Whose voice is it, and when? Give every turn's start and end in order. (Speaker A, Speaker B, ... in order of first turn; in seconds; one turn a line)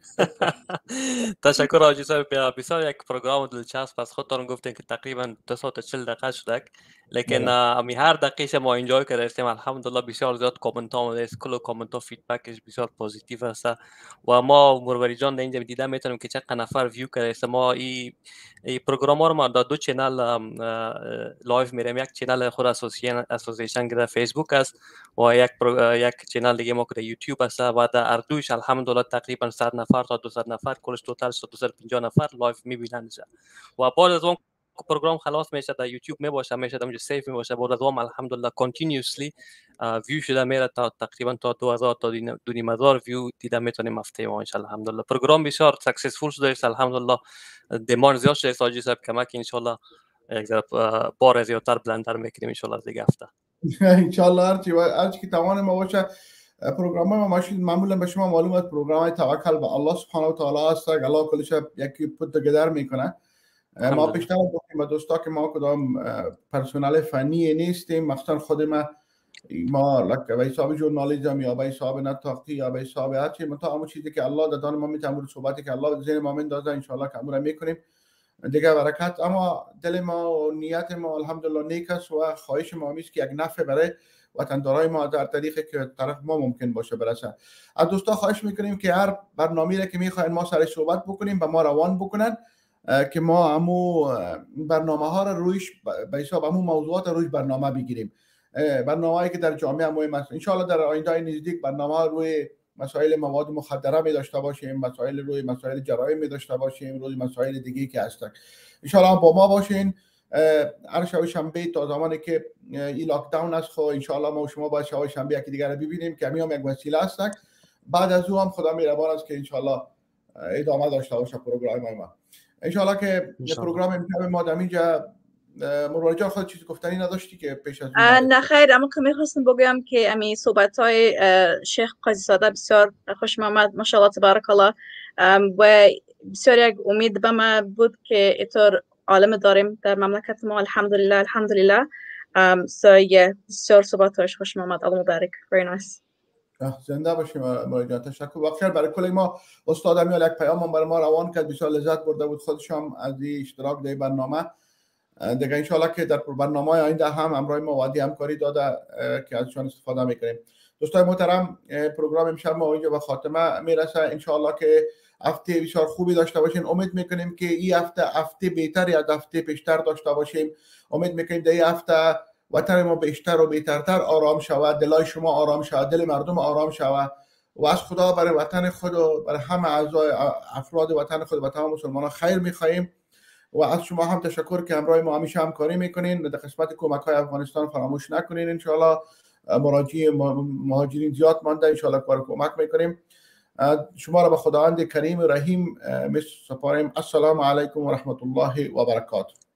Speaker A: 0.2-18.1
Speaker B: 7.3-7.5
Speaker A: 18.7-33.3
Speaker A: 33.8-47.2
Speaker A: 47.8-49.8
Speaker A: 50.3-53.3
Speaker B: 53.7-56.1
Speaker B: 56.6-63.1
Speaker B: 63.8-68.9
Speaker A: 63.8-64.2
Speaker B: 69.5-77.8
Speaker B: 78.5-92.3
Speaker B: 93.0-117.4
Speaker B: 117.9-119.9
Speaker B: 120.5-122.1
Speaker B: 122.7-128.5
Speaker A: 123.4-123.7
Speaker C: 128.0-146.0
Speaker B: 146.6-154.5
Speaker B: 155.2-177.1
Speaker B: 177.6-182.9
Speaker B: 183.5-193.0
Speaker B: 193.6-199.3